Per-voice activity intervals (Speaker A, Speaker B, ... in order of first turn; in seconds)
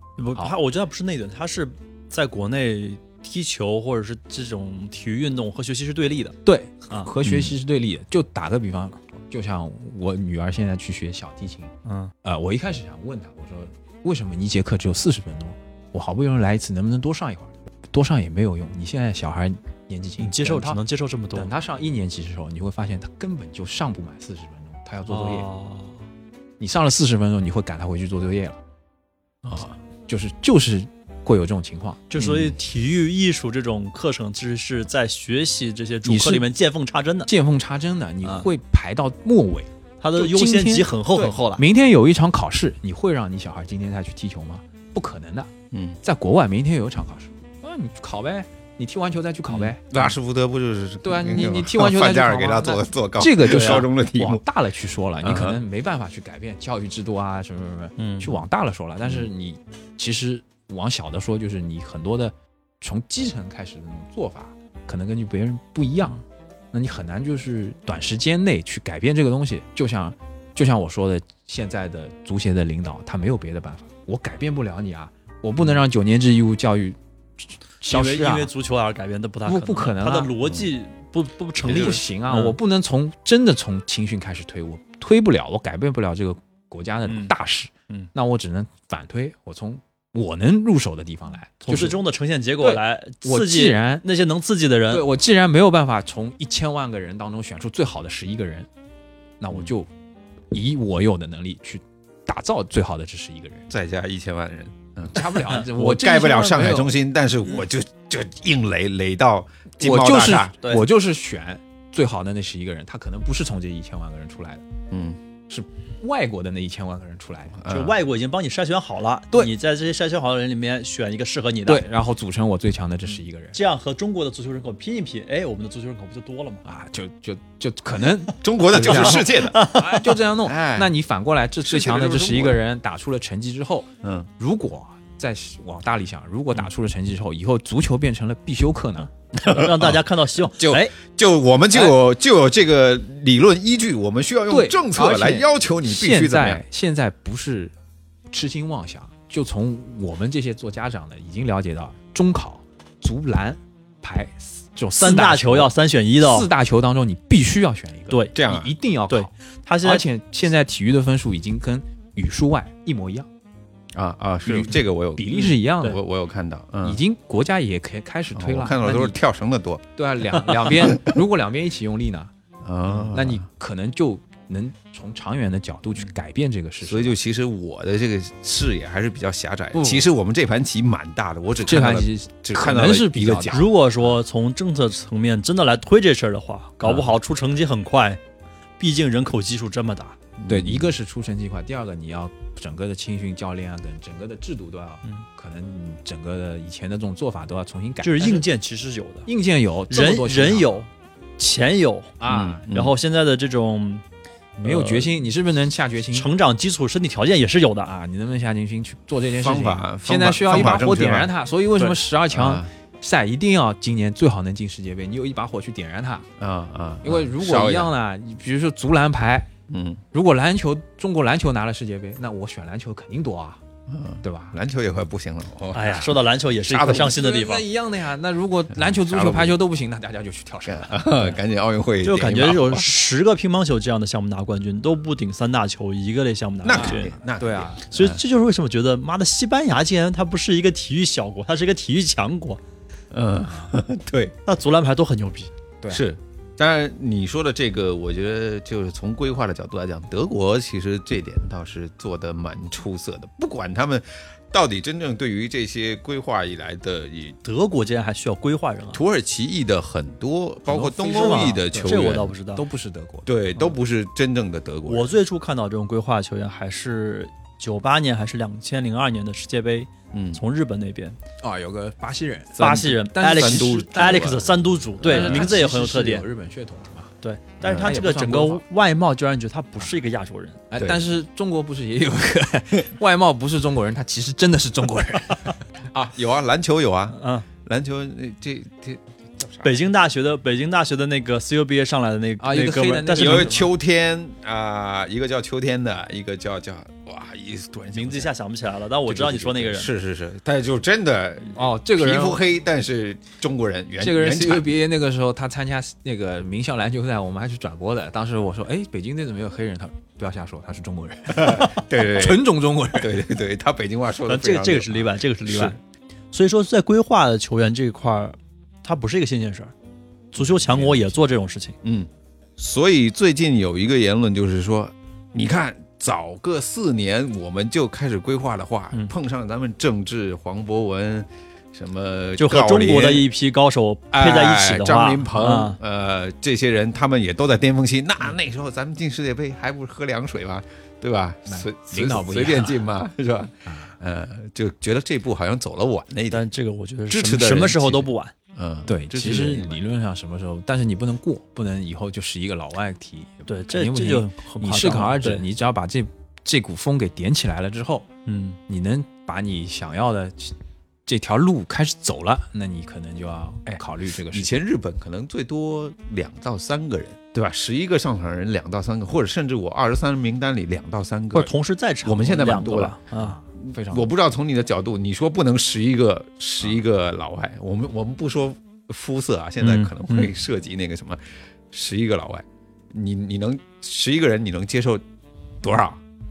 Speaker A: 0.2-6.4, 11.8-12.1, 20.2-21.5, 25.1-26.0, 32.1-37.3, 40.0-41.6, 53.4-53.9, 58.0-58.4, 77.9-82.6, 87.0-87.3, 91.6-95.1, 117.7-121.9, 123.5-126.6, 128.8-130.0, 139.4-140.9, 155.0-156.5, 159.1-160.1, 183.5-188.2, 188.8-190.2, 198.0-199.3, 199.9-202.2, 202.7-204.0, 204.6-205.1, 206.1-207.9, 225.7-227.6, 232.0-237.2, 237.9-242.6, 244.5-245.5, 257.4-259.0, 261.0-262.6, 264.9-271.2, 272.6-276.2, 277.2-280.6, 287.1-287.5, 289.6-293.5, 297.9-299.9, 314.3-315.8, 316.3-319.7, 320.3-321.8, 332.4-335.8, 346.3-348.3, 353.5-355.4, 358.3-358.6, 371.3-373.4, 379.6-380.3
Speaker B: 6.5-20.8, 21.3-25.5, 26.6-28.6, 30.1-32.1, 36.0-36.5, 37.3-50.1, 51.0-78.5, 79.5-80.4, 81.6-92.0, 92.6-94.0, 94.9-98.7, 99.4-99.9, 100.5-103.7, 105.1-107.0, 109.8-114.7, 115.5-117.6, 121.7-123.6, 126.7-139.1, 144.5-147.7, 148.3-159.3, 159.8-163.3, 164.5-166.0, 166.8-169.2, 170.0-172.3, 173.0-177.2, 179.7-180.1, 181.6-183.7, 190.5-198.5, 199.3-200.9, 202.2-202.7, 204.6-206.3, 207.8-216.3, 217.0-219.5, 220.1-223.6, 224.2-224.6, 226.9-231.4, 236.7-237.8, 243.4-243.7, 260.7-263.3, 271.4-274.4, 275.0-277.1, 277.6-278.6, 280.7-285.6, 292.4-293.7, 301.5-302.4, 304.0-313.3, 341.5-342.9, 343.7-343.9, 348.9-358.1, 358.7-360.6, 361.1-364.6, 373.1-374.1
Speaker C: 7.2-7.5, 29.4-29.8, 32.2-32.6, 45.7-46.0, 49.5-54.4, 55.2-55.6, 103.7-110.5, 114.9-115.2, 117.6-118.0, 128.4-129.7, 130.4-130.9, 131.6-132.6, 134.0-134.3, 139.4-146.6, 158.3-158.7, 163.9-167.0, 168.3-169.9, 170.7-171.1, 172.6-173.5, 176.8-183.7, 190.4-190.9, 202.3-202.9, 209.4-211.3, 212.3-212.7, 216.4-217.9, 219.7-220.0, 223.9-227.1, 228.8-229.6, 230.7-232.9, 236.6-238.2, 243.1-244.4, 245.9-257.4, 258.9-262.3, 263.3-265.1, 270.1-270.4, 272.6-275.5, 277.6-277.9, 280.8-281.0, 285.9-289.8, 293.1-298.3, 299.1-304.7, 311.3-315.8, 320.4-321.2, 321.8-333.3, 334.1-346.5, 347.1-349.8, 363.7-371.5, 372.1-373.0, 373.6-381.2, 381.7-385.0, 385.6-386.0